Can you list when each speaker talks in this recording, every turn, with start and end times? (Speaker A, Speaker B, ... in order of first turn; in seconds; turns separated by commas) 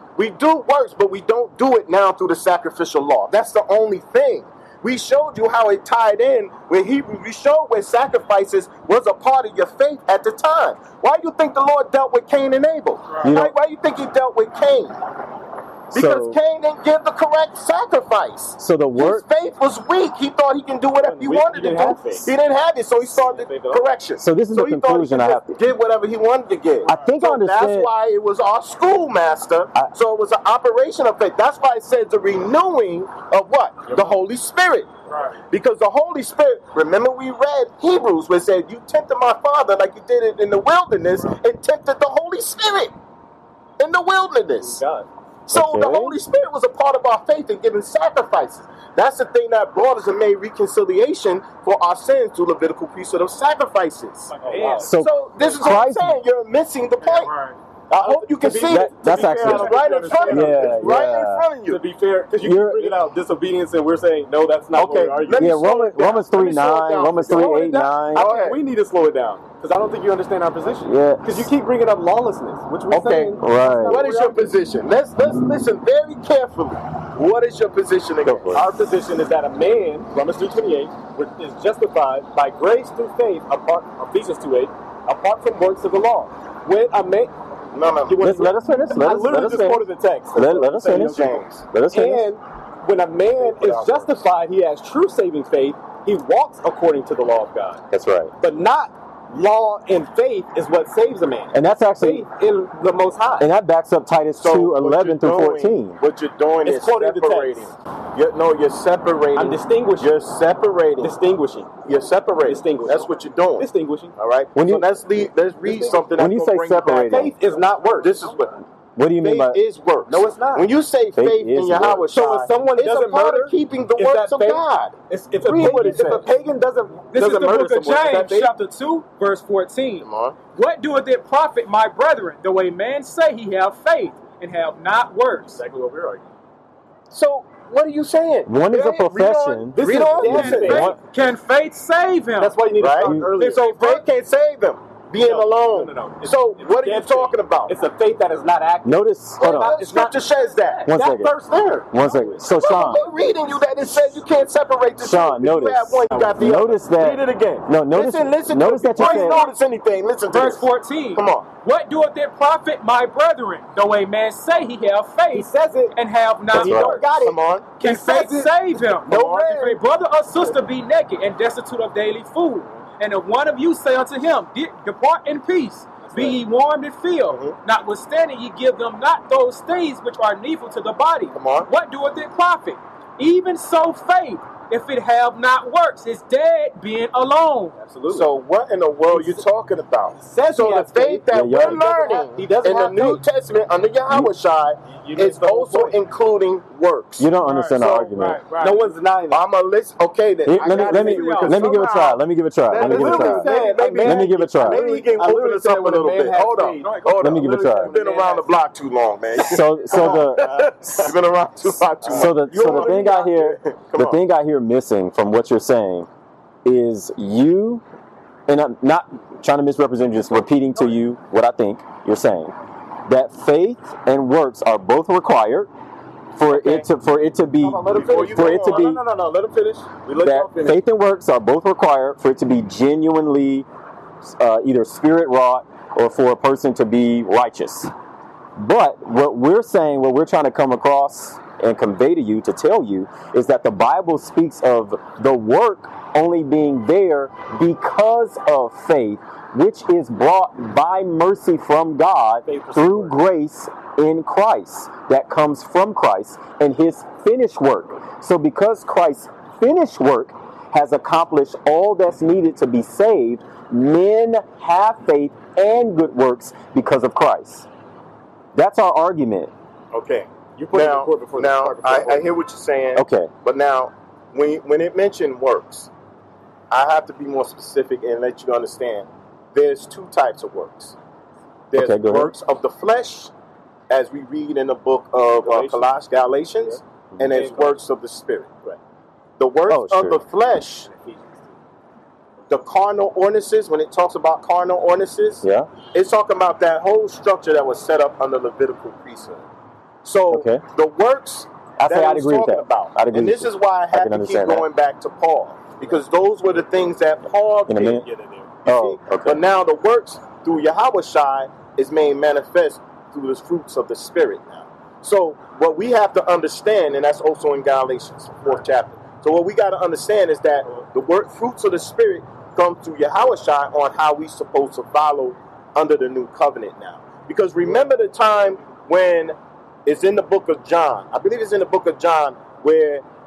Speaker A: 0.2-15.0, Speaker B: 13.1-13.4, Speaker C: 13.2-13.6, Speaker C: 15.9-16.4, Speaker A: 15.9-34.9, Speaker C: 18.6-19.2, Speaker D: 21.0-22.3, Speaker D: 23.0-23.9, Speaker C: 24.2-25.6, Speaker B: 26.9-27.1, Speaker C: 26.9-27.9, Speaker D: 33.9-34.2, Speaker B: 35.1-35.4, Speaker A: 35.4-42.9, Speaker A: 43.8-44.8, Speaker D: 44.6-45.1, Speaker A: 45.5-57.3, Speaker C: 45.5-46.2, Speaker B: 54.3-55.5, Speaker D: 54.4-54.9, Speaker C: 54.8-56.2, Speaker B: 57.0-57.6, Speaker A: 57.9-61.8, Speaker D: 57.9-61.1, Speaker C: 58.6-59.8, Speaker C: 60.3-61.5, Speaker D: 61.7-65.5, Speaker C: 62.4-63.0, Speaker A: 64.7-67.5, Speaker C: 65.3-68.3, Speaker D: 67.3-74.6, Speaker A: 68.1-68.6, Speaker C: 70.7-71.5, Speaker A: 72.9-78.7, Speaker C: 73.4-74.0, Speaker C: 78.2-78.7, Speaker D: 78.5-87.3, Speaker A: 87.7-88.4, Speaker D: 88.1-97.8, Speaker C: 88.2-92.3, Speaker A: 90.9-91.7, Speaker A: 93.4-94.2, Speaker C: 97.9-98.3, Speaker D: 98.4-103.5, Speaker C: 101.5-102.3, Speaker C: 103.4-106.0, Speaker A: 104.4-111.1, Speaker D: 106.6-107.7, Speaker D: 109.3-110.2, Speaker D: 111.0-111.7, Speaker A: 111.9-117.3, Speaker D: 112.4-114.1, Speaker C: 114.5-114.9, Speaker D: 115.6-116.1, Speaker C: 116.1-117.3, Speaker D: 117.0-118.3, Speaker A: 118.0-118.6, Speaker C: 119.0-119.6, Speaker A: 119.2-126.3, Speaker D: 120.1-120.7, Speaker C: 121.2-122.1, Speaker D: 122.1-128.5, Speaker B: 127.1-135.6, Speaker A: 130.0-130.4, Speaker D: 135.5-136.3, Speaker A: 137.1-140.9, Speaker C: 138.4-139.8, Speaker D: 139.7-141.0, Speaker B: 139.9-142.6, Speaker C: 140.4-141.0, Speaker D: 142.4-143.7, Speaker A: 142.8-147.7, Speaker C: 143.0-143.3, Speaker B: 143.4-144.1, Speaker D: 145.2-150.2, Speaker C: 148.8-149.8, Speaker A: 149.4-150.9, Speaker D: 150.8-152.5, Speaker C: 150.9-151.3, Speaker C: 151.9-153.1, Speaker A: 152.5-161.4, Speaker C: 155.0-159.4, Speaker D: 156.1-156.6, Speaker B: 159.0-159.5, Speaker B: 160.3-187.7, Speaker D: 165.3-166.0, Speaker D: 166.5-169.8, Speaker C: 166.5-167.1, Speaker A: 167.2-167.7, Speaker A: 169.1-169.5, Speaker D: 176.0-176.4, Speaker A: 177.3-177.6, Speaker A: 181.3-181.7, Speaker D: 187.8-188.3, Speaker A: 188.1-198.1, Speaker D: 189.1-189.5, Speaker D: 190.1-193.2, Speaker C: 191.3-191.8, Speaker D: 194.9-196.0, Speaker C: 197.2-198.4, Speaker B: 197.4-198.8, Speaker D: 198.6-199.4, Speaker A: 199.3-214.2, Speaker C: 200.4-204.8, Speaker B: 200.6-201.8, Speaker D: 202.8-208.5, Speaker C: 207.2-207.9, Speaker C: 209.3-211.1, Speaker D: 209.9-210.7, Speaker D: 212.0-213.2, Speaker C: 212.1-216.1, Speaker C: 216.6-217.8, Speaker C: 218.5-222.5, Speaker C: 223.1-225.7, Speaker C: 226.3-229.0, Speaker D: 226.5-226.9, Speaker D: 227.6-230.8, Speaker A: 227.9-228.9, Speaker C: 230.2-233.7, Speaker C: 234.2-237.9, Speaker C: 238.6-267.7, Speaker D: 252.4-253.2, Speaker C: 268.5-269.5, Speaker A: 269.9-275.9, Speaker D: 270.6-272.3, Speaker C: 272.9-273.3, Speaker A: 276.7-280.9, Speaker A: 281.7-283.3, Speaker C: 281.7-282.4, Speaker A: 283.9-288.5, Speaker D: 285.4-285.9, Speaker D: 286.6-287.8, Speaker A: 289.4-290.9, Speaker C: 289.7-290.2, Speaker D: 290.9-291.5, Speaker A: 292.5-299.4, Speaker C: 295.4-295.7, Speaker A: 300.0-308.1, Speaker C: 300.3-300.6, Speaker C: 301.8-304.7, Speaker C: 307.7-308.1, Speaker D: 308.0-308.5, Speaker A: 308.6-333.0, Speaker C: 308.6-309.4